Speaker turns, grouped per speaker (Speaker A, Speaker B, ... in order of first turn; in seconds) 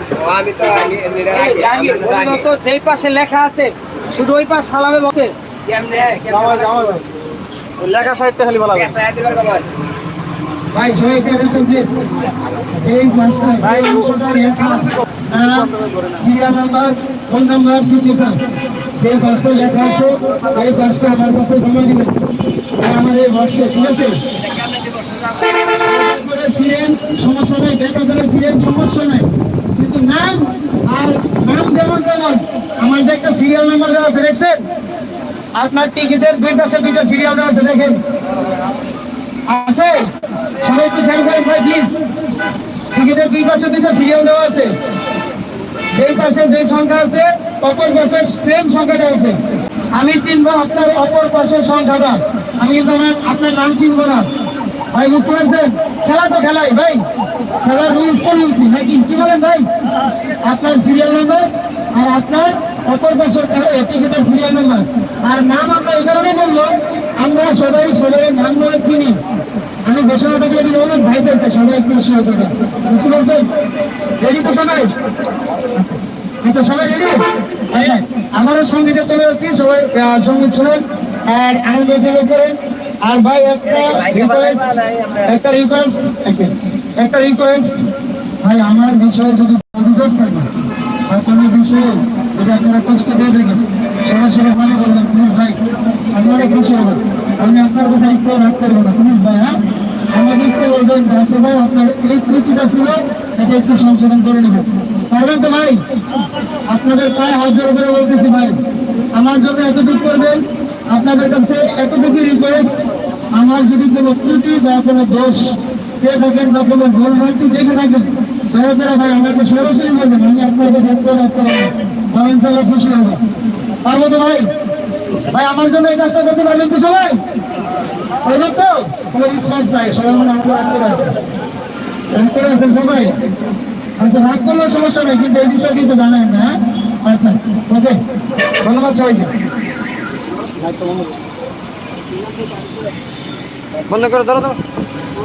Speaker A: 0.2-2.5, 5.7-6.9, 8.7-9.7, 24.6-25.4, 83.7-85.4
Speaker B: 1.3-5.3, 6.3-7.0, 140.6-141.1, 143.9-144.6
Speaker C: 7.8-8.9, 15.4-16.2
Speaker D: 10.7-11.9, 12.8-15.7, 16.2-18.4, 19.0-22.1, 22.8-24.2, 25.8-34.6, 35.6-38.0, 39.5-40.1, 40.6-41.9, 42.9-44.7, 46.0-49.4, 49.9-54.3, 54.9-57.0, 57.6-59.6, 60.5-69.2, 69.9-73.5, 74.2-74.9, 76.4-77.2, 77.7-84.7, 85.3-87.8, 88.4-90.5, 91.1-95.6, 96.1-99.6, 100.1-105.8, 106.7-108.6, 109.1-112.7, 113.3-123.2, 123.8-124.5, 125.3-127.2, 128.2-131.2, 132.1-133.2, 134.0-136.5, 137.0-138.0, 138.6-139.3